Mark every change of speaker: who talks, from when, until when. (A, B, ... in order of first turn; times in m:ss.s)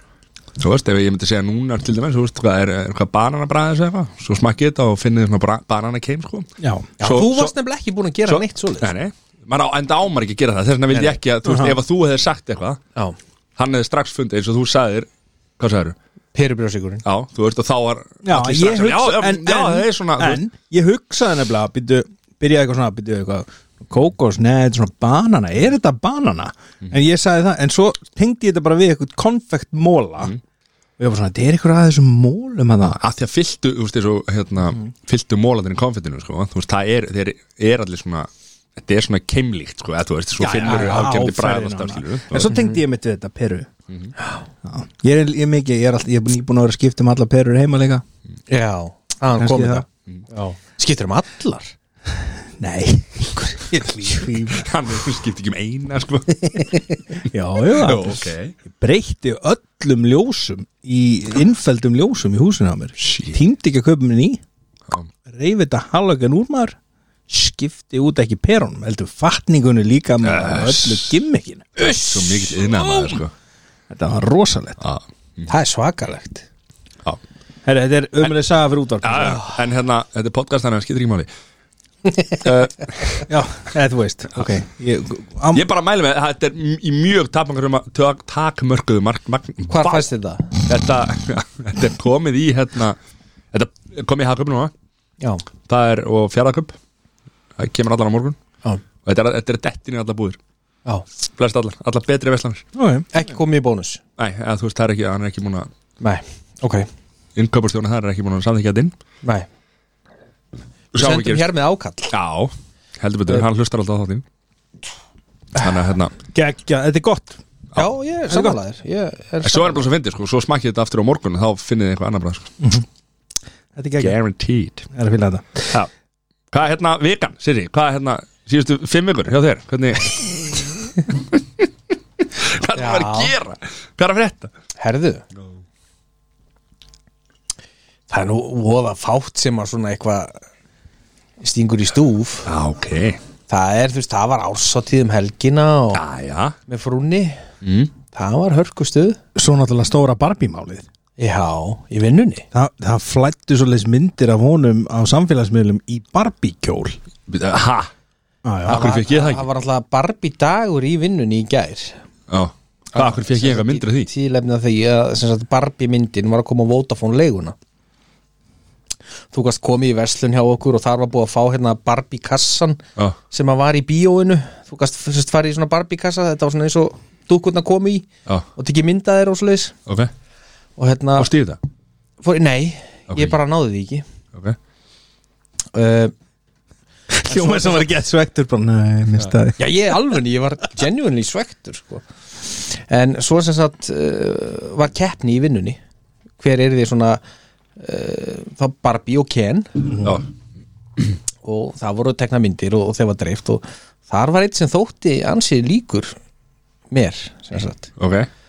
0:00.6-0:06.5 A
0:06.6-0:06.9 B
0:07.0-0:08.9 C
0:07.0-0:07.5 A
0:08.3-0:12.8 A
0:10.9-0:11.2 C
0:11.4-0:11.8 B
0:13.6-0:16.0 A
0:16.3-0:17.0 C
0:17.0-0:20.4 A
0:18.2-0:30.3 B
0:31.0-0:33.0 B
0:32.9-0:42.6 A
0:40.4-0:43.7 B
0:44.6-0:48.0 B
0:48.5-0:51.8 C
0:49.4-0:49.8 B
0:52.6-0:54.7 B
0:53.6-0:54.4 C
0:54.5-0:56.7 A
0:57.3-1:04.4 B
0:57.8-0:58.5 A
1:03.0-1:03.4 A
1:05.3-1:06.8 B
1:07.3-1:11.9 B
1:10.2-1:11.1 A
1:11.8-1:13.2 C
1:12.0-1:13.3 A
1:13.9-1:14.8 B
1:14.8-1:15.5 A
1:15.5-1:16.4 C
1:17.6-1:19.4 B
1:19.0-1:21.3 A
1:19.2-1:19.6 C
1:22.1-1:22.4 C
1:22.4-1:23.3 A
1:23.3-1:25.7 B
1:25.5-1:30.1 A
1:29.7-1:30.6 C
1:30.7-1:33.0 A
1:33.5-1:34.7 A
1:35.7-1:36.8 A
1:37.6-1:38.4 A
1:39.0-1:40.4 A
1:41.4-1:42.6 A
1:42.8-1:43.1 B
1:43.1-1:44.0 C
1:44.2-1:45.7 A
1:46.0-1:46.9 C
1:47.4-1:49.0 A
1:50.9-1:51.5 A
1:51.0-1:52.1 C
1:52.1-1:54.2 A
1:55.6-1:56.1 A
1:56.3-1:57.4 B
1:57.8-1:59.9 C
1:58.3-1:58.6 B
1:59.4-2:02.5 A
2:03.8-2:04.2 B
2:04.0-2:04.9 A
2:04.9-2:05.7 B
2:06.5-2:11.4 A
2:12.4-2:14.5 A
2:12.8-2:13.3 C
2:14.8-2:15.2 C
2:18.1-2:20.4 C
2:21.4-2:22.5 C
2:22.5-2:23.2 A
2:23.5-2:26.0 C
2:25.9-2:26.6 A
2:26.7-2:27.4 C
2:27.6-2:27.9 A
2:28.1-2:29.2 C
2:29.4-2:30.9 B
2:31.2-2:32.5 C
2:32.5-2:37.0 B
2:37.3-2:37.9 A
2:38.4-2:38.8 B
2:38.6-2:42.0 C
2:38.7-2:39.4 A
2:42.3-2:44.1 A
2:42.9-2:47.6 C
2:49.3-2:59.8 C
3:00.8-3:01.3 C
3:01.2-3:01.6 A
3:02.2-3:04.0 C
3:05.7-3:06.1 C
3:07.1-3:09.7 B
3:07.3-3:07.9 C
3:09.6-3:15.8 C
3:16.4-3:17.2 C
3:17.8-3:19.9 C
3:21.4-3:26.2 C
3:26.9-3:27.9 C
3:28.0-3:28.3 A